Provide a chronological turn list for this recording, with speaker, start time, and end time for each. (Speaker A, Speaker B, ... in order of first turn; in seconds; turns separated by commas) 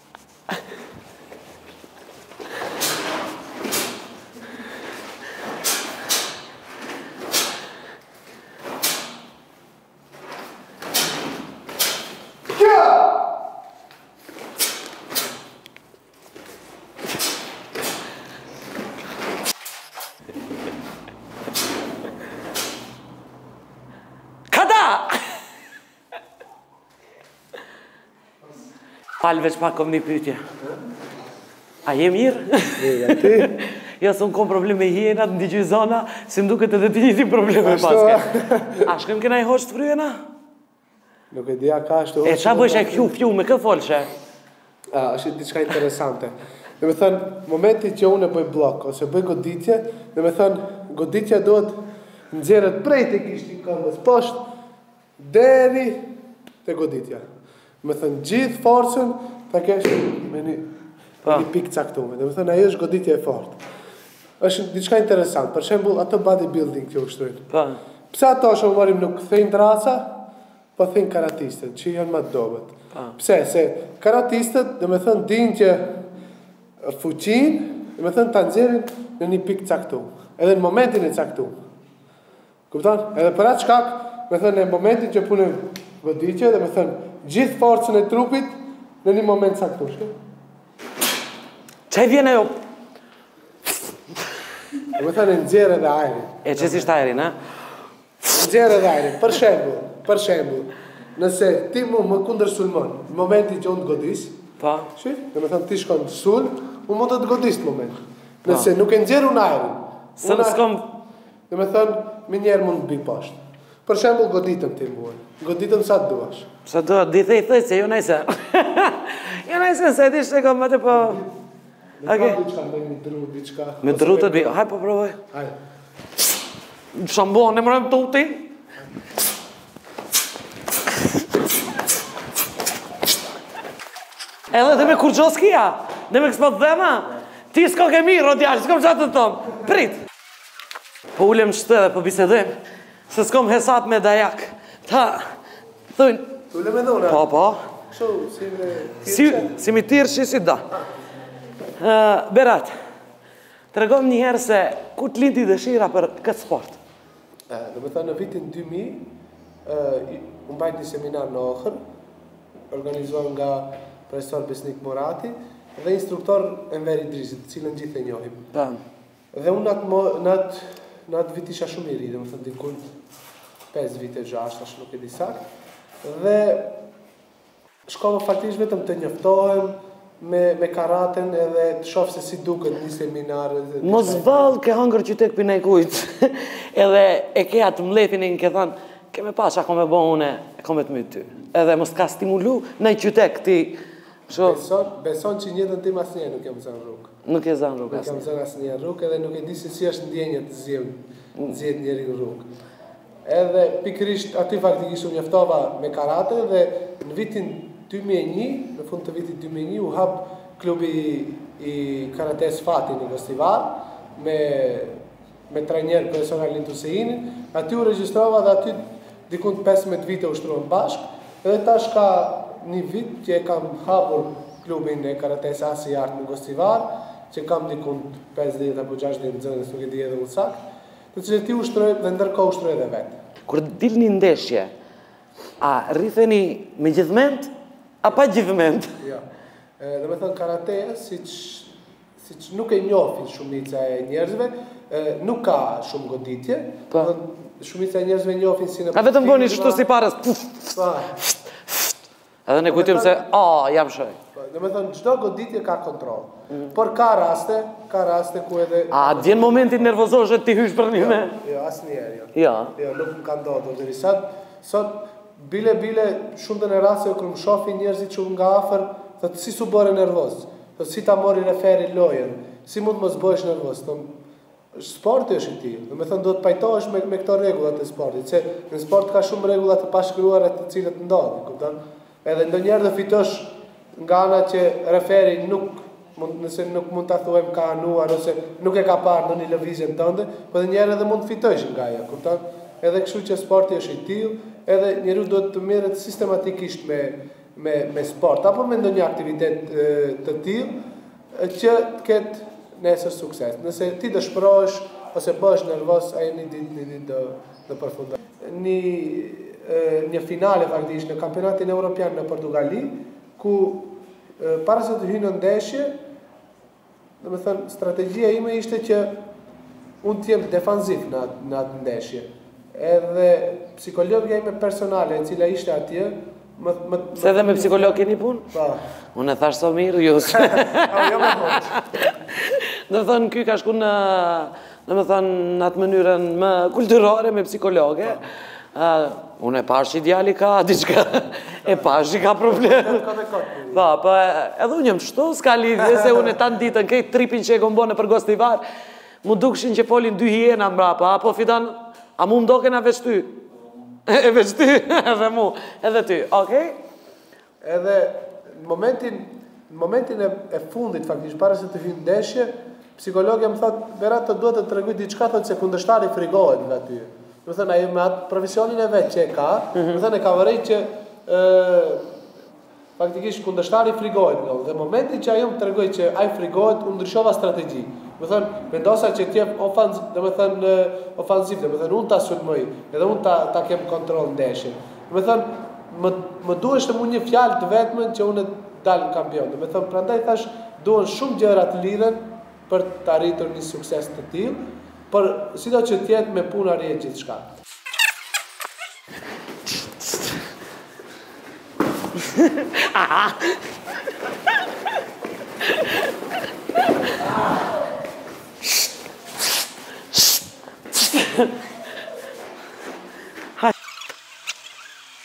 Speaker A: 12.6-12.9, Speaker B: 24.5-25.4, Speaker B: 29.2-30.4, Speaker B: 31.8-40.2, Speaker A: 32.8-33.6, Speaker A: 37.6-38.9, Speaker A: 41.3-43.1, Speaker B: 42.2-44.1, Speaker A: 44.9-54.4, Speaker A: 55.2-56.1, Speaker A: 56.6-57.2, Speaker A: 57.8-60.7, Speaker A: 61.2-63.6, Speaker B: 61.2-61.5, Speaker A: 64.4-67.5, Speaker B: 67.5-67.8, Speaker A: 68.1-70.2, Speaker A: 70.8-76.0, Speaker A: 76.8-81.5, Speaker A: 82.7-90.1, Speaker B: 91.9-92.5, Speaker A: 94.9-97.1, Speaker B: 96.4-97.4, Speaker A: 98.3-104.4, Speaker B: 104.6-104.9, Speaker A: 104.9-110.6, Speaker B: 110.2-111.0, Speaker A: 111.5-116.5, Speaker B: 116.6-121.2, Speaker A: 120.9-121.3, Speaker A: 122.0-124.6, Speaker B: 122.0-122.4, Speaker B: 123.8-125.2, Speaker B: 126.9-128.5, Speaker B: 134.5-140.0, Speaker B: 141.1-142.6, Speaker B: 143.1-145.3, Speaker B: 145.9-146.3, Speaker A: 146.5-147.3, Speaker B: 147.0-147.7, Speaker A: 147.9-149.6, Speaker B: 149.0-150.6, Speaker B: 151.8-152.7, Speaker B: 153.7-156.8, Speaker A: 157.5-159.1, Speaker A: 159.6-161.8, Speaker A: 162.7-168.5, Speaker B: 168.5-168.8, Speaker A: 169.3-172.8, Speaker A: 173.7-175.4, Speaker A: 176.0-176.8, Speaker A: 177.8-184.5, Speaker B: 183.8-194.6, Speaker A: 194.4-197.1, Speaker B: 197.2-198.3, Speaker A: 197.9-202.5, Speaker A: 203.2-233.2, Speaker B: 233.5-234.7, Speaker B: 235.6-239.0, Speaker A: 239.0-239.2, Speaker A: 239.8-249.8, Speaker B: 248.9-251.9, Speaker A: 250.7-251.2, Speaker B: 252.4-254.2, Speaker A: 252.7-253.2, Speaker A: 254.3-260.1, Speaker B: 258.9-261.4, Speaker A: 260.9-274.1, Speaker B: 262.3-262.7, Speaker A: 274.7-300.8, Speaker A: 301.3-315.9, Speaker A: 317.2-319.1, Speaker A: 320.0-328.8, Speaker B: 327.1-328.6, Speaker B: 329.1-343.1, Speaker A: 330.2-332.2, Speaker A: 341.6-343.9, Speaker B: 343.7-348.6, Speaker A: 345.8-346.4, Speaker B: 349.2-353.4, Speaker B: 354.0-356.8, Speaker A: 357.6-372.1, Speaker B: 369.7-370.0, Speaker A: 373.0-397.4, Speaker B: 402.2-403.6, Speaker B: 410.9-411.6